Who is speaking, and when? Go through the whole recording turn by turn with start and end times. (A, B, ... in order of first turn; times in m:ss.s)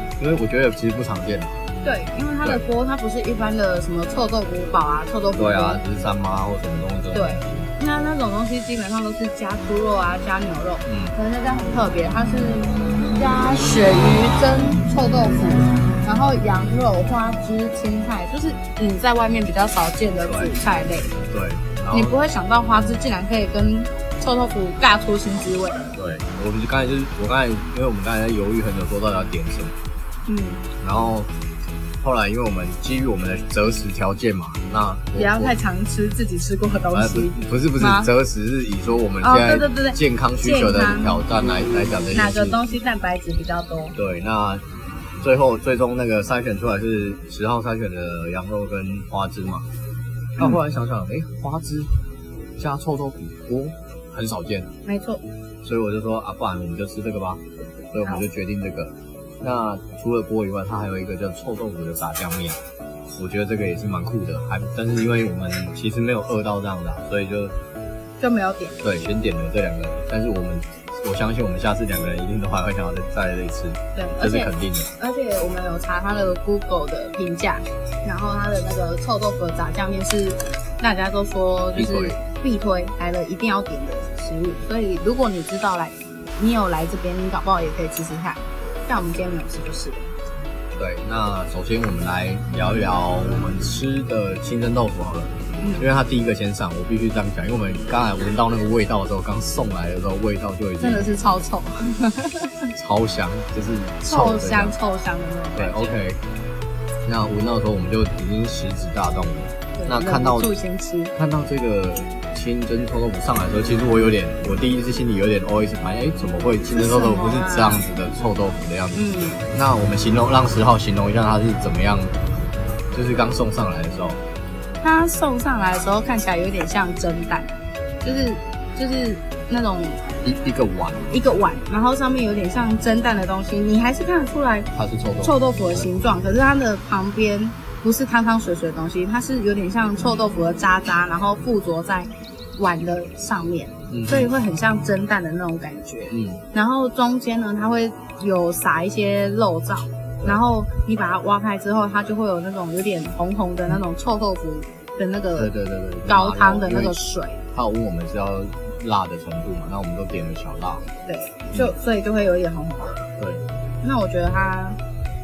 0:00.2-0:01.6 A
0:01.8-0:05.8 B
0:05.4-0:07.7 A
0:07.1-0:21.2 B
0:10.8-0:11.2 A
0:20.2-0:20.5 A
0:21.3-0:22.2 A
0:21.9-0:25.9 B
0:25.9-0:29.8 A
0:30.3-0:30.6 B
0:30.8-0:31.3 A
0:32.0-0:35.6 A
0:35.1-0:38.1 B
0:36.9-0:42.6 A
0:39.2-0:41.3 B
0:42.1-0:44.0 B
0:44.0-0:44.6 A
0:45.2-0:49.7 A
0:50.4-0:51.9 A
0:52.6-0:54.7 A
0:54.8-0:55.2 B
0:55.6-1:02.6 A
1:03.1-1:07.6 A
1:08.2-1:08.8 B
1:08.8-1:14.9 A
1:13.9-1:30.1 B
1:21.7-1:22.2 A
1:30.8-1:41.1 A
1:35.6-1:35.9 B
1:40.8-1:42.7 B
1:42.8-1:44.8 A
1:44.0-1:45.9 B
1:45.6-1:46.2 A
1:47.0-1:50.5 A
1:49.8-1:51.1 B
1:51.2-2:02.2 A
1:56.7-1:57.9 B
1:58.9-1:59.4 B
2:02.9-2:04.2 A
2:04.8-2:10.0 B
2:10.2-2:11.1 A
2:11.1-2:14.7 B
2:14.7-2:15.9 A
2:15.2-2:35.5 B
2:23.9-2:24.3 A
2:26.1-2:26.4 A
2:35.4-2:37.0 A
2:36.1-2:37.4 B
2:37.5-2:40.8 A
2:41.0-2:43.1 B
2:43.2-2:43.5 A
2:43.8-2:44.8 B